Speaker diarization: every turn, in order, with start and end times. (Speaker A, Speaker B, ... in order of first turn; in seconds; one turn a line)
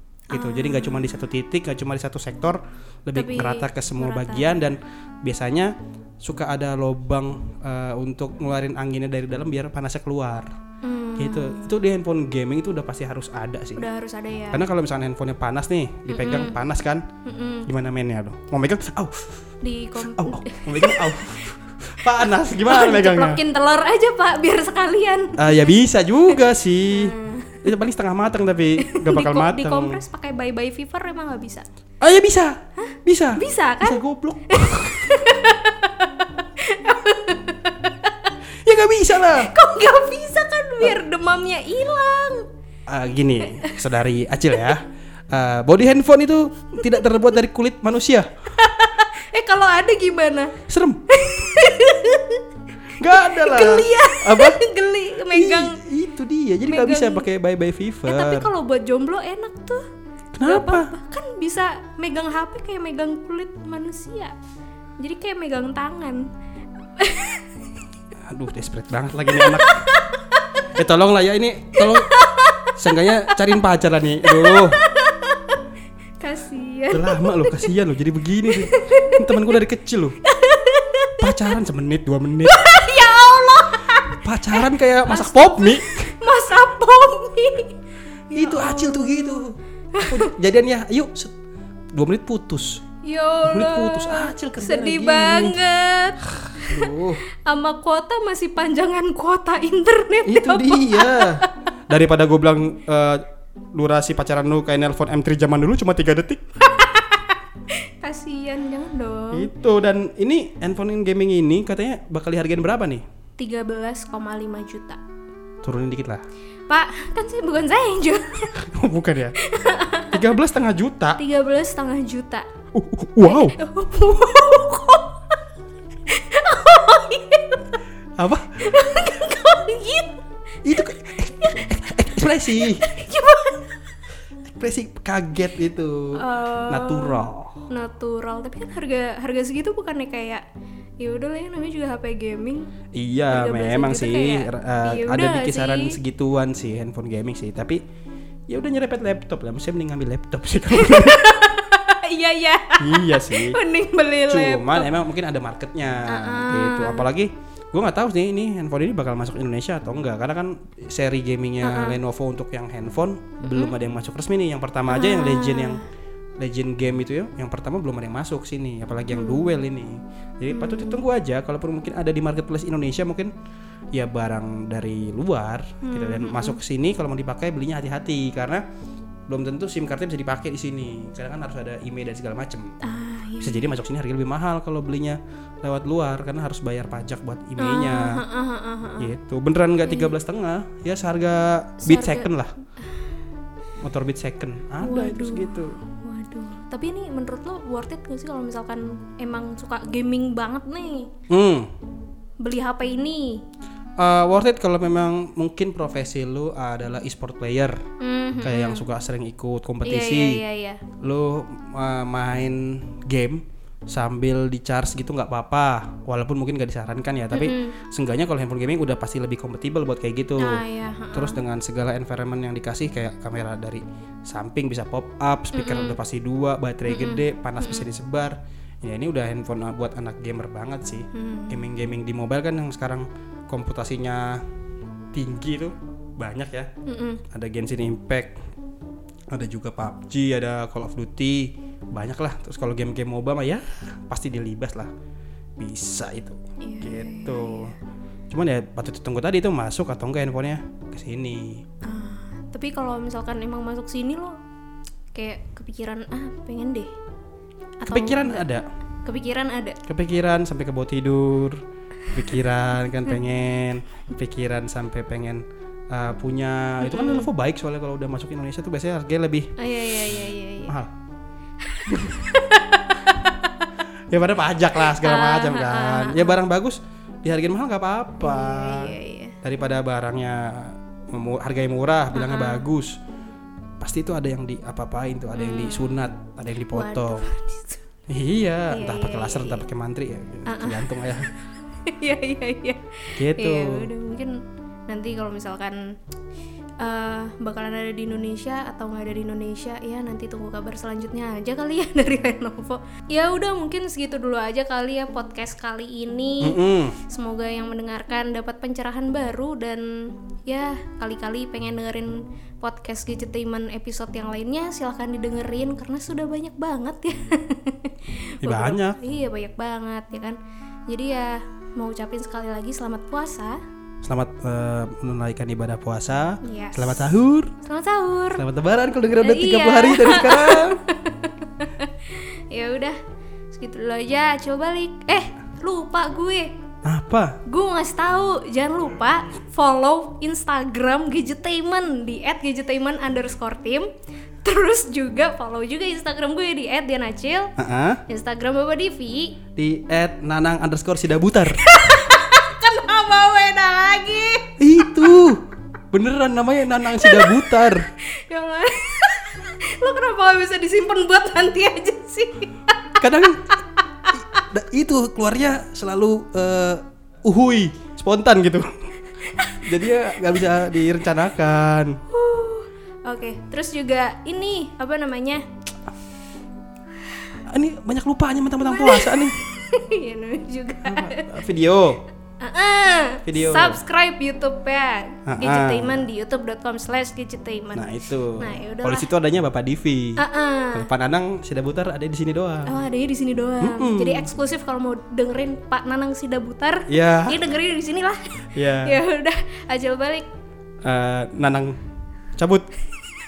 Speaker A: 0.3-10.5
Speaker B: 0.3-1.1
Speaker B: 3.1-4.6
Speaker B: 10.8-11.8
Speaker A: 11.2-13.8
Speaker B: 13.8-14.6
Speaker A: 14.5-17.0
Speaker B: 16.1-16.6
Speaker B: 17.2-17.7
Speaker A: 17.6-19.4
Speaker B: 19.6-21.4
Speaker A: 20.0-23.4
Speaker B: 22.5-25.4
Speaker A: 25.4-30.0
Speaker B: 26.9-27.6
Speaker B: 28.8-31.6
Speaker A: 32.0-35.1
Speaker B: 32.8-38.3
Speaker A: 38.6-39.5
Speaker B: 39.2-42.5
Speaker A: 42.9-48.3
Speaker B: 48.6-50.6
Speaker A: 50.7-51.4
Speaker B: 51.1-52.5
Speaker A: 53.0-54.6
Speaker B: 53.2-55.8
Speaker A: 55.3-58.5
Speaker B: 56.7-57.2
Speaker B: 58.1-59.8
Speaker A: 60.3-60.9
Speaker B: 60.4-64.3
Speaker B: 65.0-66.2
Speaker B: 67.0-67.5
Speaker A: 68.3-69.8
Speaker B: 69.3-70.6
Speaker A: 70.7-72.1
Speaker B: 71.8-73.5
Speaker A: 72.8-74.8
Speaker B: 74.2-75.6
Speaker B: 76.2-77.7
Speaker A: 76.9-80.2
Speaker B: 78.5-79.4
Speaker B: 80.2-81.5
Speaker A: 81.2-82.7
Speaker B: 82.5-87.8
Speaker A: 84.2-86.2
Speaker B: 88.3-89.4
Speaker A: 88.3-91.3
Speaker B: 89.9-90.3
Speaker A: 91.9-92.8
Speaker B: 93.0-96.9
Speaker A: 93.4-95.6
Speaker A: 96.4-97.2
Speaker B: 97.4-101.4
Speaker A: 100.2-106.4
Speaker B: 106.6-109.5
Speaker A: 109.3-113.0
Speaker B: 113.4-115.0
Speaker A: 115.6-116.2
Speaker B: 116.7-118.6
Speaker A: 118.5-119.3
Speaker B: 119.4-120.2
Speaker A: 120.1-121.2
Speaker B: 121.2-122.5
Speaker A: 122.7-123.6
Speaker B: 123.2-125.4
Speaker B: 126.0-127.8
Speaker A: 128.2-128.5
Speaker B: 128.6-130.2
Speaker A: 130.6-132.9
Speaker B: 131.3-134.0
Speaker A: 134.5-137.6
Speaker B: 136.2-140.4
Speaker B: 141.0-142.7
Speaker A: 142.9-147.8
Speaker B: 143.3-146.0
Speaker A: 148.5-151.2
Speaker B: 150.7-154.9
Speaker A: 152.8-153.6
Speaker A: 154.3-165.8
Speaker B: 156.1-157.1
Speaker B: 161.6-162.0
Speaker B: 163.4-163.7
Speaker B: 164.9-165.8
Speaker A: 166.4-173.3
Speaker B: 169.1-169.5
Speaker B: 170.5-171.0
Speaker A: 173.9-178.6
Speaker B: 175.8-176.6
Speaker A: 179.3-182.8
Speaker B: 182.8-183.7
Speaker A: 183.4-188.2
Speaker B: 187.6-189.1
Speaker A: 189.0-192.5
Speaker B: 189.8-190.1
Speaker B: 191.8-192.3
Speaker A: 193.8-195.8
Speaker B: 194.8-201.1
Speaker A: 201.3-201.7
Speaker B: 202.4-203.4
Speaker A: 204.0-207.8
Speaker B: 208.0-208.8
Speaker A: 208.4-210.4
Speaker B: 209.8-210.8
Speaker A: 211.0-220.6
Speaker B: 217.3-217.8
Speaker B: 220.4-221.4
Speaker A: 221.1-234.4
Speaker B: 225.5-226.0
Speaker B: 226.9-227.9
Speaker B: 231.1-231.7
Speaker A: 235.1-236.7
Speaker B: 236.8-237.2
Speaker A: 237.3-238.3
Speaker A: 239.3-244.9
Speaker A: 245.6-247.7
Speaker B: 246.6-247.8
Speaker A: 248.3-251.6
Speaker B: 251.8-254.4
Speaker B: 255.1-256.9
Speaker B: 257.8-258.5
Speaker A: 257.9-258.6
Speaker B: 259.0-259.8
Speaker A: 259.9-261.6
Speaker A: 262.1-269.5
Speaker B: 266.8-267.3
Speaker B: 269.6-270.7
Speaker B: 271.6-273.7
Speaker A: 271.9-272.2
Speaker A: 274.1-283.0
Speaker B: 274.8-276.4
Speaker B: 278.2-279.4
Speaker B: 282.1-282.7
Speaker A: 283.8-287.2
Speaker B: 285.3-286.1
Speaker B: 286.7-287.8
Speaker A: 288.1-291.3
Speaker B: 288.7-289.7
Speaker B: 290.4-295.9
Speaker A: 293.2-293.9
Speaker B: 296.8-323.6
Speaker A: 306.4-307.0
Speaker A: 318.4-319.0
Speaker A: 324.0-327.5
Speaker B: 326.4-327.1
Speaker B: 327.6-328.4
Speaker A: 328.4-330.8
Speaker B: 329.2-333.0
Speaker B: 333.5-336.5
Speaker A: 336.8-337.4
Speaker B: 337.4-343.9
Speaker B: 344.4-347.5
Speaker A: 347.6-348.0
Speaker B: 348.1-349.4
Speaker A: 349.5-351.6
Speaker B: 351.6-354.6
Speaker A: 354.6-355.4
Speaker A: 355.9-357.8
Speaker B: 356.9-362.9
Speaker A: 363.0-363.5
Speaker B: 363.5-364.4
Speaker A: 364.3-368.7
Speaker B: 369.2-369.9
Speaker A: 369.6-372.0
Speaker B: 372.1-375.4
Speaker A: 377.4-379.4
Speaker B: 378.6-381.4
Speaker A: 380.8-382.0
Speaker B: 382.4-389.1
Speaker A: 383.2-383.8
Speaker A: 385.2-386.1
Speaker A: 387.7-390.2
Speaker B: 390.2-390.9
Speaker A: 390.7-392.7
Speaker B: 392.6-400.3
Speaker A: 393.6-394.3
Speaker A: 396.9-397.4
Speaker A: 398.5-399.0
Speaker A: 400.8-401.8
Speaker A: 402.4-402.7